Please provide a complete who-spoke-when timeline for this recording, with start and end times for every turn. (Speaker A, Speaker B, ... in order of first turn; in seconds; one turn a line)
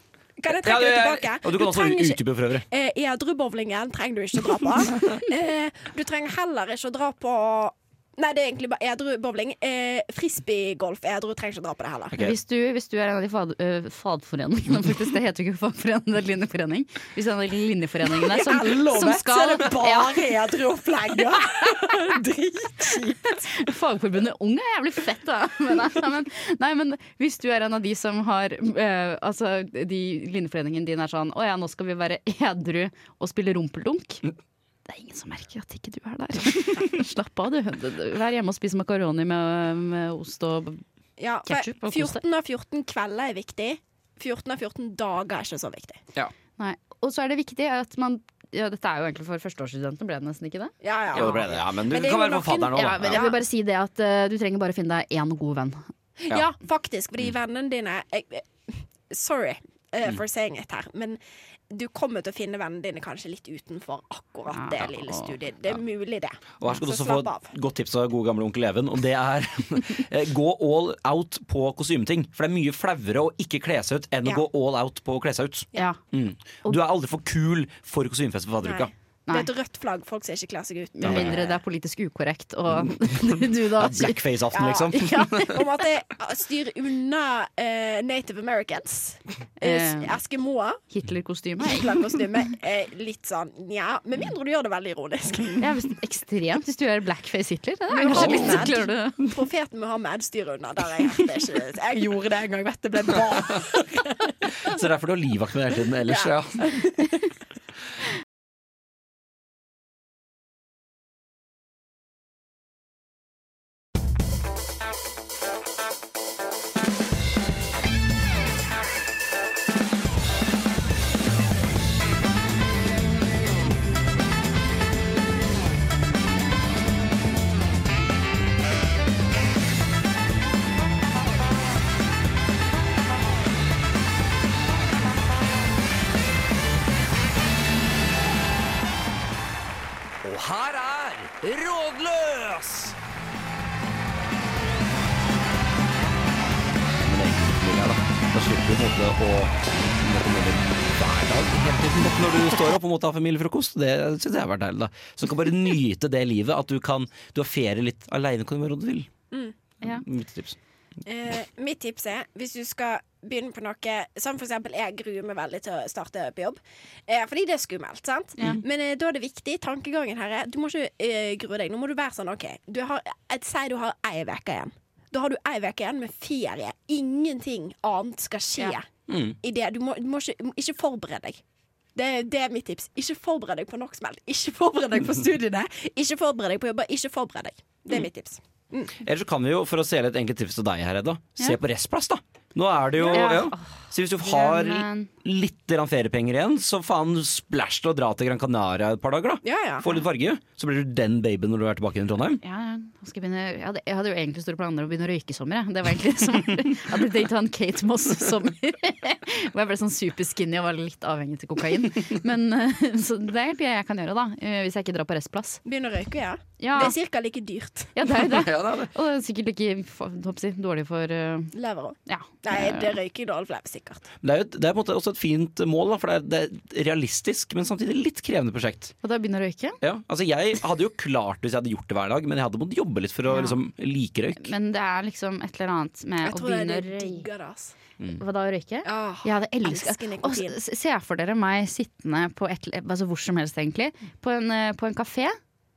Speaker A: 0.4-12.2
Speaker B: 0.5-2.6
Speaker C: 12.2-20.2
Speaker A: 18.2-23.4
Speaker C: 21.7-22.1
Speaker C: 23.4-34.2
Speaker C: 34.9-40.8
Speaker A: 41.2-46.0
Speaker C: 41.5-42.2
Speaker C: 46.6-51.4
Speaker A: 50.8-53.4
Speaker B: 51.1-53.2
Speaker C: 52.7-55.9
Speaker A: 56.3-61.2
Speaker A: 61.7-67.5
Speaker C: 64.5-65.3
Speaker B: 66.6-78.9
Speaker A: 78.6-81.6
Speaker C: 81.0-84.2
Speaker B: 81.0-81.3
Speaker B: 82.8-85.6
Speaker A: 84.5-90.8
Speaker C: 84.9-85.6
Speaker C: 89.6-90.2
Speaker C: 90.9-92.0
Speaker A: 91.6-95.7
Speaker C: 95.6-99.3
Speaker A: 97.9-104.0
Speaker B: 98.1-98.7
Speaker B: 104.6-106.8
Speaker A: 106.1-107.1
Speaker B: 140.2-142.9
Speaker B: 147.0-159.1
Speaker B: 159.8-160.6
Speaker A: 161.1-178.9
Speaker B: 179.1-179.3
Speaker A: 179.4-181.4
Speaker A: 181.9-189.0
Speaker B: 189.0-202.4
Speaker A: 193.0-193.4
Speaker C: 193.1-195.1
Speaker A: 199.4-199.9
Speaker C: 202.4-215.6
Speaker A: 215.6-217.9
Speaker C: 216.6-216.9
Speaker C: 217.9-221.5
Speaker B: 218.1-218.9
Speaker A: 221.5-224.1
Speaker C: 222.1-222.9
Speaker B: 224.2-228.9
Speaker C: 229.0-229.8
Speaker B: 229.8-234.5
Speaker C: 233.3-233.6
Speaker C: 234.4-237.2
Speaker A: 236.2-237.7
Speaker C: 238.2-245.4
Speaker A: 238.8-240.6